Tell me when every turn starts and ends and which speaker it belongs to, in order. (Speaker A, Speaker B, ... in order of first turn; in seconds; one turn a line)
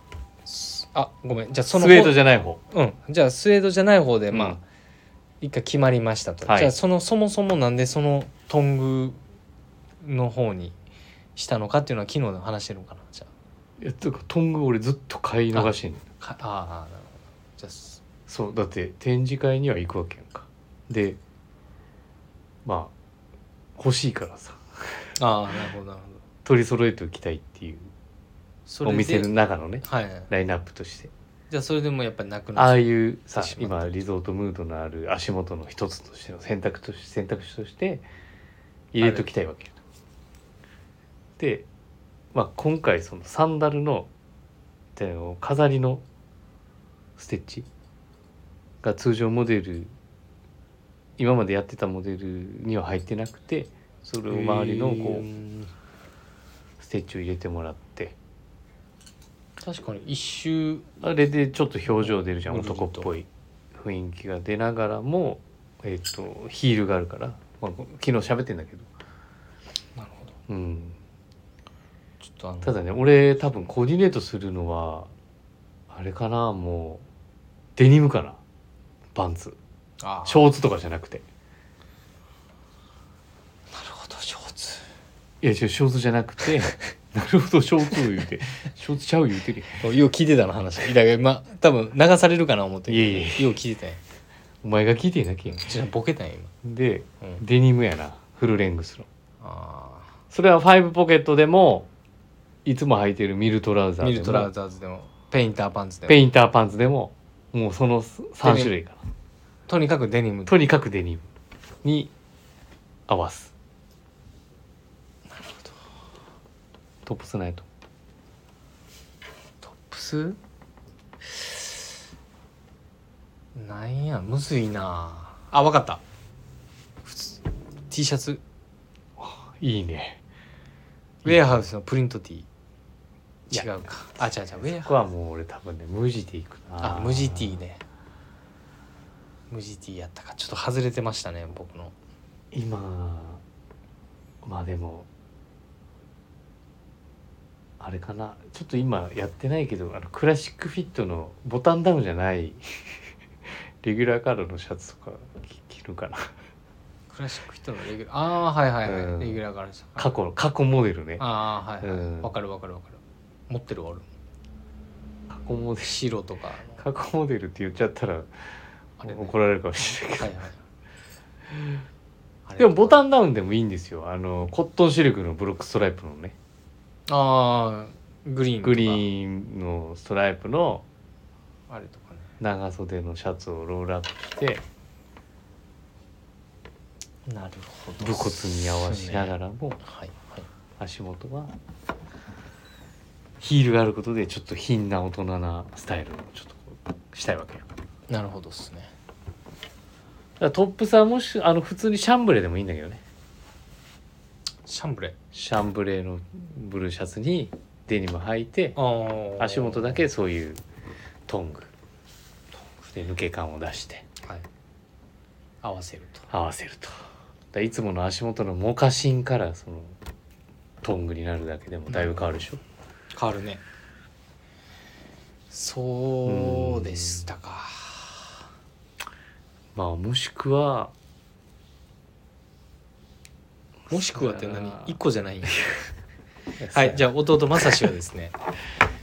Speaker A: 0.5-2.2
Speaker B: 1.7-2.6
Speaker A: 2.7-4.6
Speaker B: 4.3-4.6
Speaker A: 5.4-9.2
Speaker B: 6.4-6.7
Speaker A: 10.0-10.8
Speaker A: 11.3-13.3
Speaker B: 13.8-16.0
Speaker A: 15.5-18.0
Speaker B: 18.3-21.2
Speaker B: 22.6-22.9
Speaker B: 23.8-25.1
Speaker A: 25.2-26.2
Speaker B: 26.4-27.9
Speaker A: 28.7-29.3
Speaker B: 28.8-31.1
Speaker A: 29.8-30.3
Speaker A: 31.5-34.0
Speaker B: 32.5-38.0
Speaker B: 38.9-39.8
Speaker A: 39.0-39.3
Speaker B: 41.4-41.7
Speaker B: 42.3-44.1
Speaker B: 45.0-46.0
Speaker B: 47.2-47.7
Speaker B: 48.8-49.9
Speaker B: 51.2-55.2
Speaker A: 54.3-55.7
Speaker B: 56.8-58.1
Speaker A: 59.6-60.9
Speaker B: 61.0-68.9
Speaker A: 62.0-63.1
Speaker A: 70.0-70.3
Speaker B: 70.5-71.0
Speaker A: 72.2-72.7
Speaker B: 72.6-75.1
Speaker B: 75.9-77.0
Speaker B: 77.8-78.4
Speaker B: 79.1-79.6
Speaker A: 80.0-80.5
Speaker B: 80.2-81.2
Speaker A: 83.7-84.8
Speaker B: 85.4-89.8
Speaker A: 89.8-94.0
Speaker B: 92.9-93.6
Speaker B: 94.6-95.8
Speaker A: 95.5-96.5
Speaker B: 96.6-99.1
Speaker A: 99.4-100.1
Speaker B: 100.3-101.9
Speaker B: 102.6-104.5
Speaker A: 104.0-106.2
Speaker B: 106.1-109.0
Speaker A: 108.4-108.7
Speaker A: 109.7-110.5
Speaker B: 110.5-111.3
Speaker B: 111.8-112.1
Speaker B: 113.1-113.5
Speaker A: 115.3-115.8
Speaker B: 117.0-117.7
Speaker A: 119.6-120.4
Speaker A: 121.3-121.7
Speaker A: 123.5-126.0
Speaker A: 127.0-128.4
Speaker B: 129.2-130.2
Speaker B: 131.2-131.6
Speaker A: 131.2-132.5
Speaker A: 133.5-134.9
Speaker B: 134.6-137.6
Speaker A: 136.8-137.8
Speaker A: 139.5-141.9
Speaker B: 142.5-143.4
Speaker B: 144.4-145.1
Speaker B: 147.8-153.0
Speaker B: 153.8-156.3
Speaker A: 157.1-160.1
Speaker B: 158.8-159.4
Speaker B: 160.0-161.2
Speaker A: 161.2-164.1
Speaker B: 161.8-162.3
Speaker B: 165.3-166.0
Speaker A: 165.8-166.8
Speaker B: 166.8-168.3
Speaker A: 169.0-169.3
Speaker B: 169.0-170.3
Speaker A: 170.2-170.6
Speaker B: 171.5-171.8
Speaker A: 172.5-173.0
Speaker B: 172.6-176.3
Speaker A: 177.1-179.0
Speaker B: 178.6-180.8
Speaker A: 181.7-182.3
Speaker B: 182.4-184.6
Speaker A: 187.3-190.4
Speaker B: 188.0-189.8
Speaker B: 190.8-191.5
Speaker B: 193.4-197.7
Speaker A: 198.1-198.9
Speaker B: 200.4-203.0
Speaker A: 204.7-205.2
Speaker B: 205.3-208.8
Speaker A: 208.8-210.0
Speaker B: 209.4-210.6
Speaker B: 211.3-211.7
Speaker B: 212.9-214.0
Speaker A: 215.6-216.3
Speaker B: 216.3-219.9
Speaker B: 220.8-222.6
Speaker A: 221.9-222.3
Speaker A: 223.1-223.6
Speaker A: 225.5-228.3
Speaker B: 226.2-227.3
Speaker B: 229.7-230.9
Speaker B: 233.9-235.0
Speaker A: 233.9-235.7
Speaker B: 236.6-237.1
Speaker A: 236.7-238.3